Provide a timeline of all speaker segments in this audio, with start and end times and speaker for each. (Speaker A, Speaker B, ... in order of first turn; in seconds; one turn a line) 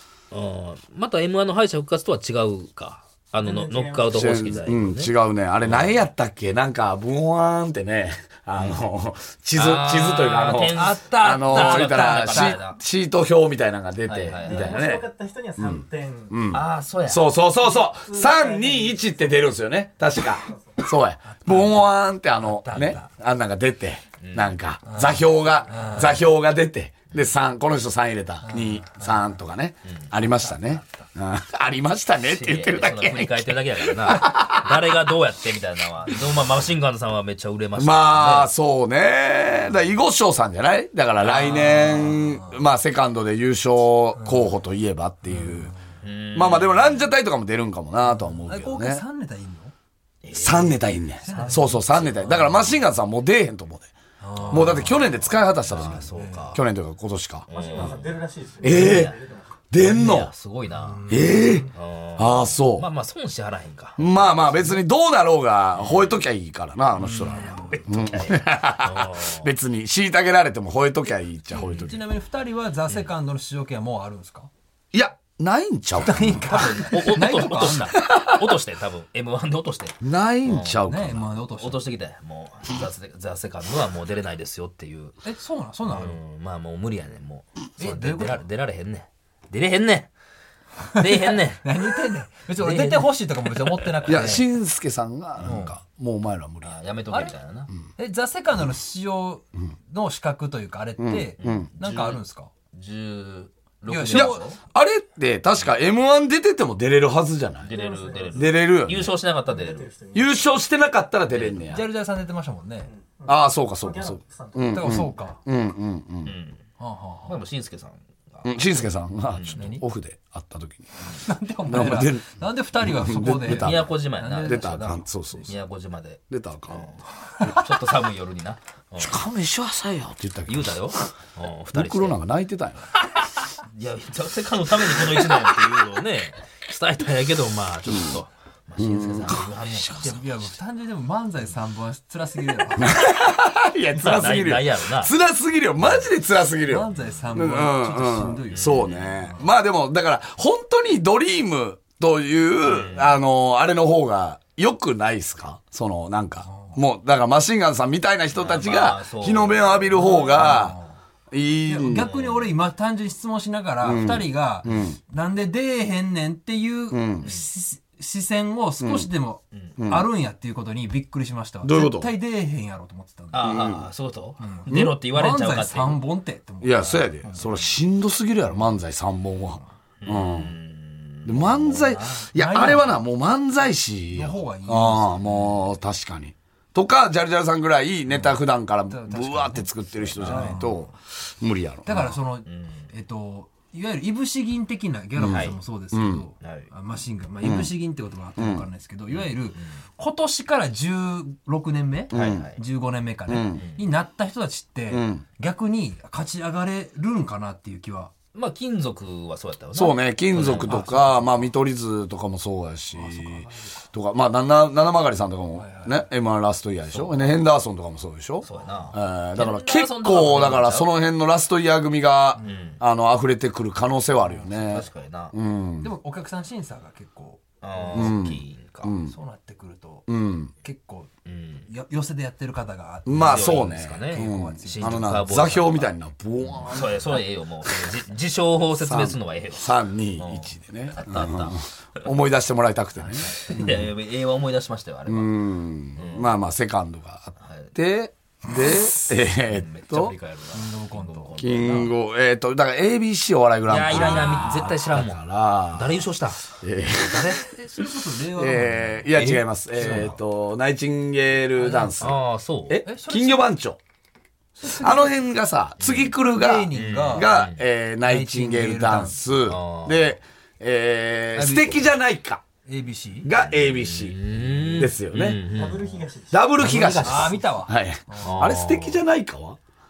Speaker A: 0.3-5.1
Speaker B: 3.4-4.4
Speaker C: 4.1-15.0
Speaker A: 5.6-6.0
Speaker A: 8.6-8.8
Speaker A: 9.5-12.8
Speaker D: 10.7-12.6
Speaker A: 14.0-14.8
Speaker B: 14.4-16.4
Speaker C: 15.6-34.8
Speaker A: 16.5-17.3
Speaker B: 17.6-19.4
Speaker B: 20.2-20.8
Speaker D: 21.2-23.1
Speaker A: 24.2-24.6
Speaker D: 24.9-26.3
Speaker D: 28.4-29.4
Speaker A: 29.8-30.1
Speaker D: 30.2-31.1
Speaker A: 32.2-38.5
Speaker C: 37.8-45.7
Speaker A: 41.2-42.2
Speaker D: 44.2-44.5
Speaker D: 45.3-45.9
Speaker A: 46.0-47.1
Speaker C: 46.3-49.0
Speaker D: 48.2-49.7
Speaker A: 50.2-51.7
Speaker C: 50.3-53.9
Speaker D: 51.2-52.7
Speaker D: 54.2-55.1
Speaker A: 54.4-56.6
Speaker C: 54.5-57.9
Speaker D: 56.1-56.6
Speaker A: 57.5-59.1
Speaker B: 57.5-59.6
Speaker C: 58.6-59.1
Speaker C: 59.7-60.3
Speaker A: 59.8-64.8
Speaker D: 60.7-61.6
Speaker C: 61.1-62.9
Speaker C: 64.0-72.0
Speaker A: 65.7-66.2
Speaker A: 67.0-69.5
Speaker D: 67.3-67.8
Speaker D: 71.5-74.5
Speaker A: 71.6-71.9
Speaker C: 74.9-76.6
Speaker D: 76.0-78.0
Speaker A: 76.4-80.8
Speaker C: 78.0-78.2
Speaker C: 80.0-81.3
Speaker D: 80.9-81.9
Speaker A: 81.5-85.1
Speaker D: 85.2-86.2
Speaker A: 85.9-90.1
Speaker D: 87.8-88.4
Speaker A: 90.9-92.0
Speaker D: 91.0-94.4
Speaker A: 92.5-93.8
Speaker C: 94.0-96.8
Speaker D: 95.4-95.7
Speaker A: 96.6-97.7
Speaker D: 97.1-97.3
Speaker D: 98.0-102.5
Speaker C: 101.0-101.7
Speaker A: 101.4-102.2
Speaker A: 102.7-104.6
Speaker D: 103.9-104.5
Speaker C: 104.1-107.8
Speaker B: 107.6-108.6
Speaker A: 107.6-109.9
Speaker C: 108.3-109.1
Speaker B: 109.4-110.5
Speaker C: 110.1-111.8
Speaker A: 111.3-111.7
Speaker D: 111.6-112.9
Speaker B: 112.8-114.8
Speaker C: 113.3-116.3
Speaker D: 114.6-115.4
Speaker A: 116.2-116.6
Speaker D: 116.8-117.4
Speaker A: 117.2-119.6
Speaker C: 118.4-120.9
Speaker D: 119.5-119.8
Speaker D: 121.1-124.9
Speaker C: 121.6-125.5
Speaker A: 123.5-129.2
Speaker C: 126.3-127.6
Speaker C: 129.0-131.1
Speaker A: 130.4-132.2
Speaker C: 131.7-132.9
Speaker A: 133.1-140.5
Speaker C: 137.9-138.2
Speaker C: 138.8-140.1
Speaker D: 139.9-143.0
Speaker C: 142.8-160.8
Speaker A: 143.9-145.1
Speaker D: 146.7-148.8
Speaker A: 148.5-149.3
Speaker A: 152.6-153.2
Speaker D: 156.5-156.8
Speaker A: 158.3-160.0
Speaker D: 159.9-160.9
Speaker C: 161.3-162.1
Speaker D: 161.7-173.6
Speaker A: 161.9-162.6
Speaker C: 163.8-165.0
Speaker C: 166.9-167.3
Speaker C: 168.8-169.1
Speaker C: 169.8-170.1
Speaker C: 171.6-172.1
Speaker A: 173.3-176.1
Speaker C: 173.4-173.9
Speaker D: 174.4-177.4
Speaker C: 174.7-175.0
Speaker C: 176.6-180.5
Speaker A: 176.8-177.6
Speaker A: 180.0-182.3
Speaker C: 181.2-192.2
Speaker D: 182.3-182.9
Speaker D: 184.1-185.3
Speaker A: 185.2-185.6
Speaker D: 188.9-190.8
Speaker A: 190.2-190.7
Speaker D: 191.8-208.1
Speaker A: 192.4-192.9
Speaker C: 195.2-196.3
Speaker A: 195.2-195.6
Speaker A: 196.4-196.7
Speaker C: 197.4-197.8
Speaker C: 198.4-198.7
Speaker A: 199.1-199.8
Speaker C: 202.1-202.5
Speaker A: 202.1-202.6
Speaker C: 203.3-203.6
Speaker A: 203.5-203.9
Speaker C: 204.9-205.2
Speaker A: 208.3-211.2
Speaker C: 209.7-225.9
Speaker D: 210.7-211.0
Speaker D: 212.9-213.8
Speaker D: 215.5-216.1
Speaker A: 216.9-217.4
Speaker A: 218.4-220.9
Speaker D: 218.5-218.8
Speaker D: 222.4-222.7
Speaker A: 222.4-222.8
Speaker A: 224.5-225.3
Speaker D: 225.8-228.1
Speaker A: 227.6-228.9
Speaker C: 227.9-229.1
Speaker D: 229.0-231.1
Speaker C: 230.1-230.5
Speaker A: 231.2-231.7
Speaker D: 231.6-235.2
Speaker C: 233.1-237.2
Speaker A: 233.1-235.9
Speaker A: 236.4-241.6
Speaker C: 238.8-243.9
Speaker D: 243.0-243.6
Speaker A: 243.1-245.3
Speaker C: 245.1-250.2
Speaker A: 246.0-246.3
Speaker A: 247.4-247.7
Speaker A: 249.4-251.9
Speaker D: 250.5-251.9
Speaker C: 251.4-257.5
Speaker A: 253.7-256.4
Speaker D: 253.9-254.6
Speaker D: 256.9-260.2
Speaker C: 258.3-263.8
Speaker D: 261.6-261.9
Speaker A: 262.0-262.8
Speaker D: 262.8-263.5
Speaker D: 264.6-265.3
Speaker C: 264.6-272.4
Speaker A: 265.8-266.1
Speaker D: 266.3-267.3
Speaker A: 266.7-267.6
Speaker D: 268.0-269.2
Speaker A: 269.5-270.2
Speaker D: 271.3-271.9
Speaker D: 272.6-273.3
Speaker C: 273.2-275.4
Speaker A: 273.3-276.0
Speaker B: 275.5-276.8
Speaker C: 276.3-279.6
Speaker D: 276.6-278.5
Speaker A: 276.7-277.2
Speaker A: 278.2-279.0